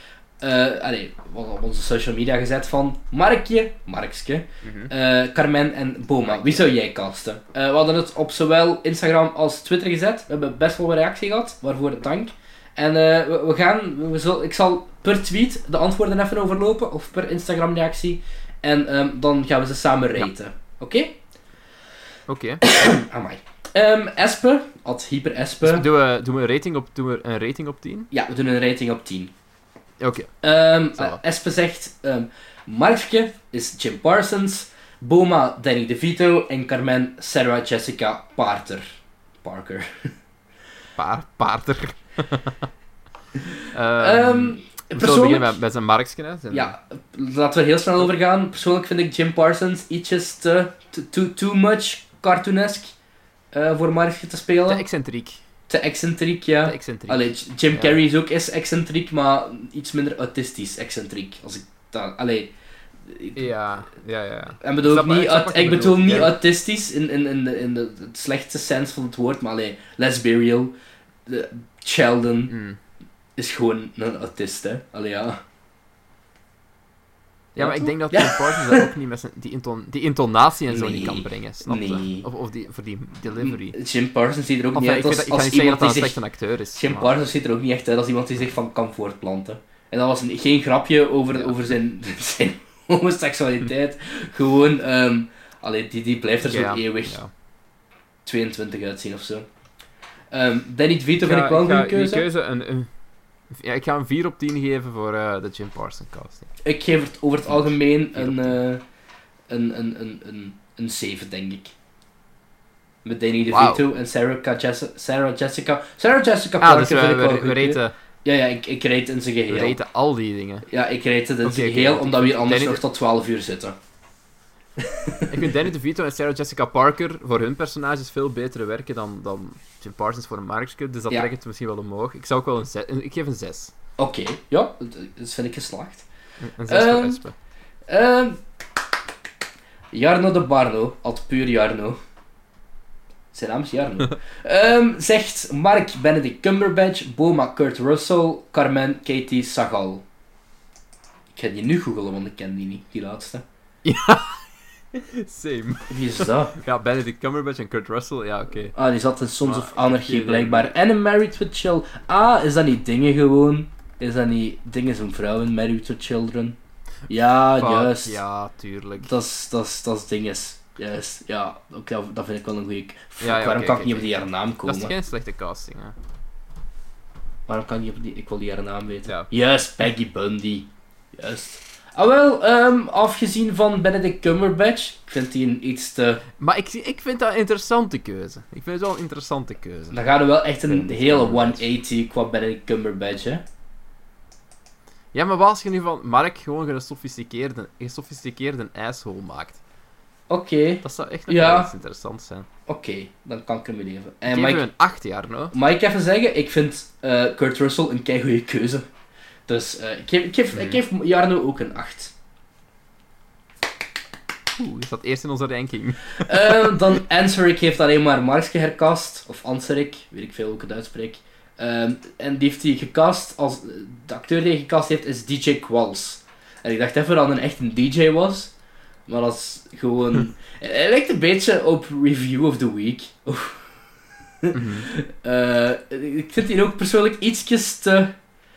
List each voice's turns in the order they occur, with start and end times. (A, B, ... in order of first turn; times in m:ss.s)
0:00.4-0:21.2 A
0:04.6-0:04.9 B
0:06.2-0:06.7 B
0:22.3-0:22.6 B
0:22.6-0:25.8 A
0:25.6-0:28.1 B
0:28.1-0:29.3 A
0:30.0-0:30.3 B
0:30.4-0:38.8 A
0:30.9-0:31.2 B
0:39.4-0:40.1 A
0:41.0-0:42.6 B
0:43.7-0:46.7 B
0:44.0-0:45.5 A
0:46.5-0:52.9 A
0:53.5-0:54.8 A
0:54.6-0:55.4 B
0:55.7-1:02.5 A
0:56.6-0:58.0 B
1:03.0-1:03.4 A
1:03.4-1:06.4 B
1:04.6-1:10.7 A
1:11.2-1:12.5 A
1:12.5-1:12.8 B
1:13.4-1:15.4 A
1:17.5-1:23.8 B
1:17.6-1:18.9 A
1:20.7-1:22.3 A
1:23.4-1:26.2 A
1:24.7-1:27.1 B
1:26.7-1:37.2 A
1:31.3-1:31.6 B
1:36.4-1:37.3 B
1:38.2-1:39.5 A
1:40.3-1:42.2 A
1:41.2-1:42.9 B
1:43.5-1:46.5 B
1:46.6-1:48.8 A
1:47.5-1:48.6 B
1:49.5-1:51.7 A
1:53.0-1:59.8 A
1:53.5-1:53.9 B
1:56.6-1:57.9 B
1:59.5-2:00.7 B
2:00.7-2:03.8 A
2:01.4-2:02.8 B
2:04.8-2:05.3 A
2:05.3-2:13.7 B
2:14.0-2:16.0 A
2:16.4-2:17.3 B
2:16.7-2:17.2 A
2:17.9-2:18.4 A
2:19.9-2:22.0 A
2:23.3-2:30.0 A
2:31.3-2:33.4 A
2:33.8-2:38.8 B
2:35.9-2:36.6 A
2:38.7-2:46.6 A
2:39.4-2:40.7 B
2:47.1-2:48.2 A
2:47.6-2:49.1 B
2:49.0-2:54.9 A
2:53.2-2:56.0 B
2:57.5-3:06.2 A
3:06.4-3:10.0 B
3:09.9-3:13.4 A
3:10.7-3:11.7 B
3:15.1-3:19.6 B
3:20.3-3:21.7 A
3:20.8-3:22.5 B
3:22.7-3:24.6 A
3:24.3-3:25.5 B
3:25.5-3:28.9 A
3:29.5-3:32.1 A
3:30.5-3:30.8 B
3:34.5-3:37.0 B
3:36.2-3:48.5 A
3:49.1-3:53.6 A
3:54.4-3:58.1 A
3:54.5-3:54.9 B